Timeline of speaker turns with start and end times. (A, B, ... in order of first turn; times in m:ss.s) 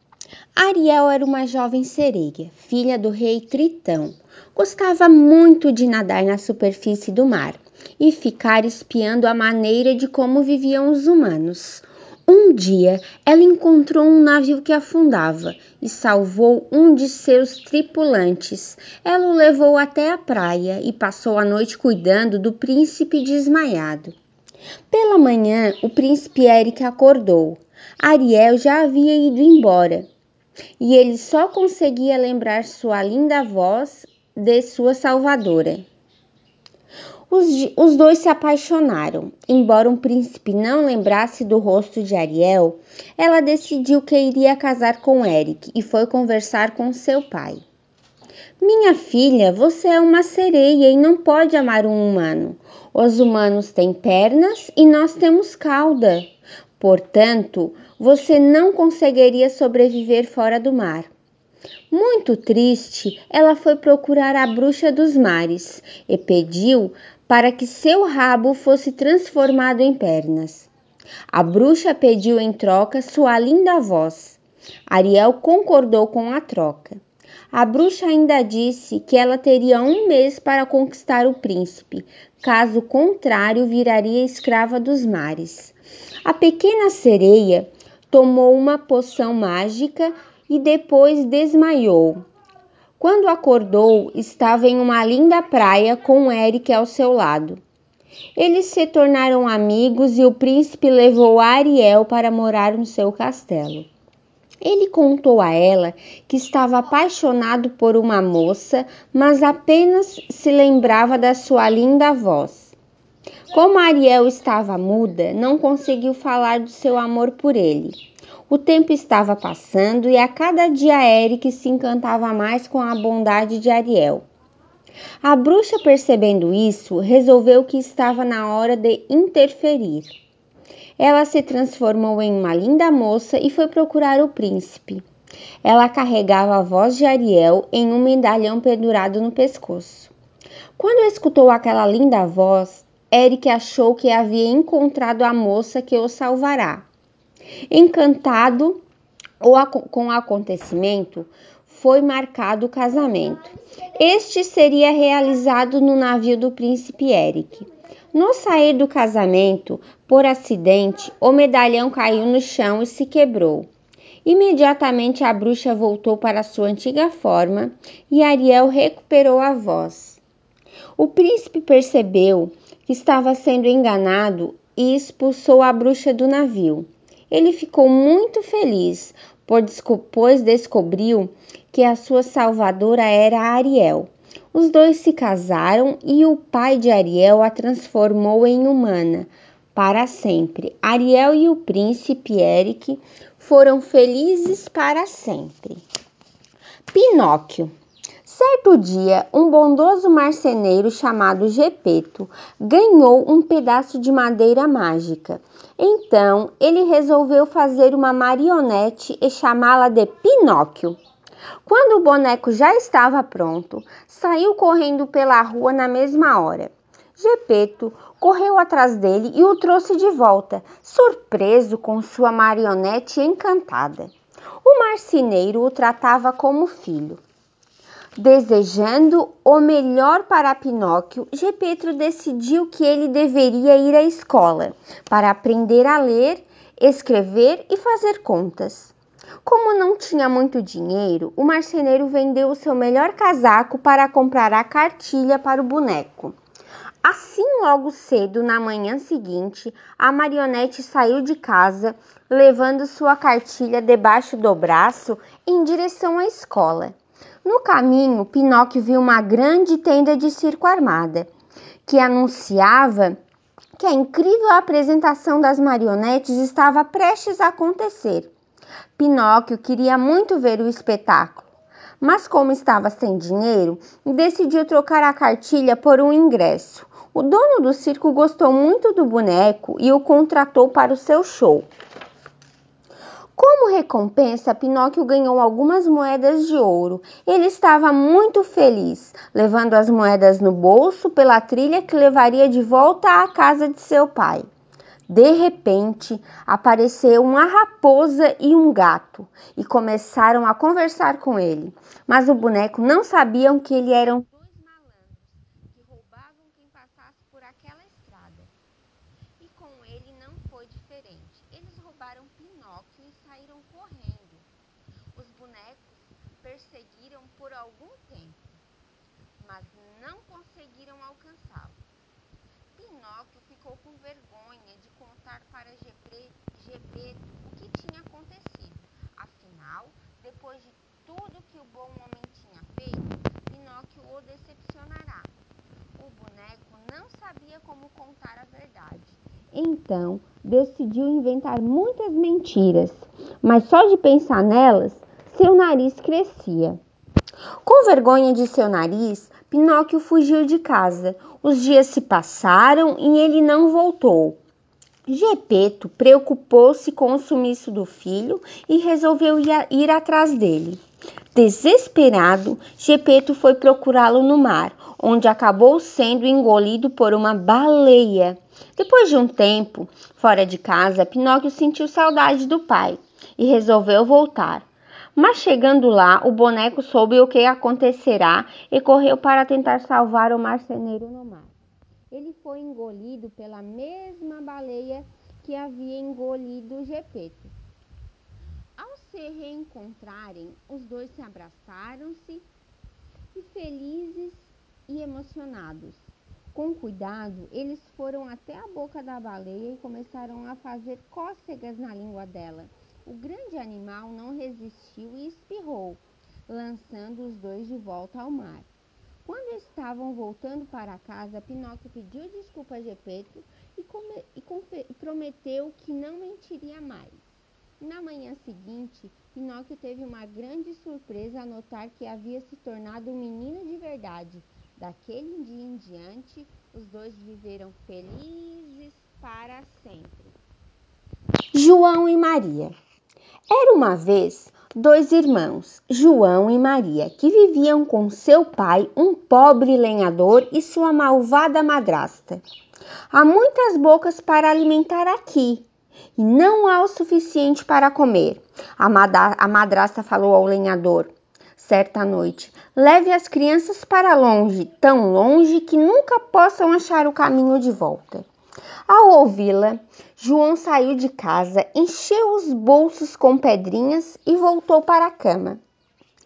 0:00.6-0:24.2 A
0:24.9-0:30.1 A
0:30.8-0:35.8 A
0:37.3-0:47.6 A
0:48.6-1:01.1 A
1:01.9-1:10.7 A
1:11.3-1:17.0 A
1:17.5-1:32.2 A
1:33.0-1:37.6 A
1:38.4-1:43.9 A
1:44.6-1:52.7 A
1:53.5-1:58.0 A
1:58.5-2:04.2 A
2:05.2-2:10.1 A
2:11.0-2:15.0 A
2:15.6-2:20.1 A
2:20.8-2:26.8 A
2:27.7-2:28.8 A
2:29.4-2:43.7 A
2:44.2-2:50.2 A
2:51.0-3:15.8 A
3:16.9-3:17.7 A
3:18.2-3:31.0 A
3:31.6-3:44.1 A
3:44.6-3:47.2 A
3:48.2-4:06.4 A
4:07.0-4:21.3 A
4:21.8-4:23.2 A
4:23.8-4:28.3 A
4:29.0-4:41.7 A
4:43.4-4:54.5 A
4:55.1-5:08.5 A
5:09.4-5:14.5 A
5:15.1-5:18.6 A
5:19.4-5:21.8 A
5:22.7-5:35.3 A
5:36.0-5:46.8 A
5:47.6-5:54.4 A
5:55.1-6:00.8 A
6:01.3-6:21.5 A
6:22.1-6:27.5 A
6:28.8-6:32.4 A
6:33.3-6:48.7 A
6:49.2-6:57.2 A
6:57.8-7:10.3 A
7:11.5-7:12.7 A
7:13.5-7:22.4 A
7:23.1-7:38.3 A
7:38.9-7:45.6 A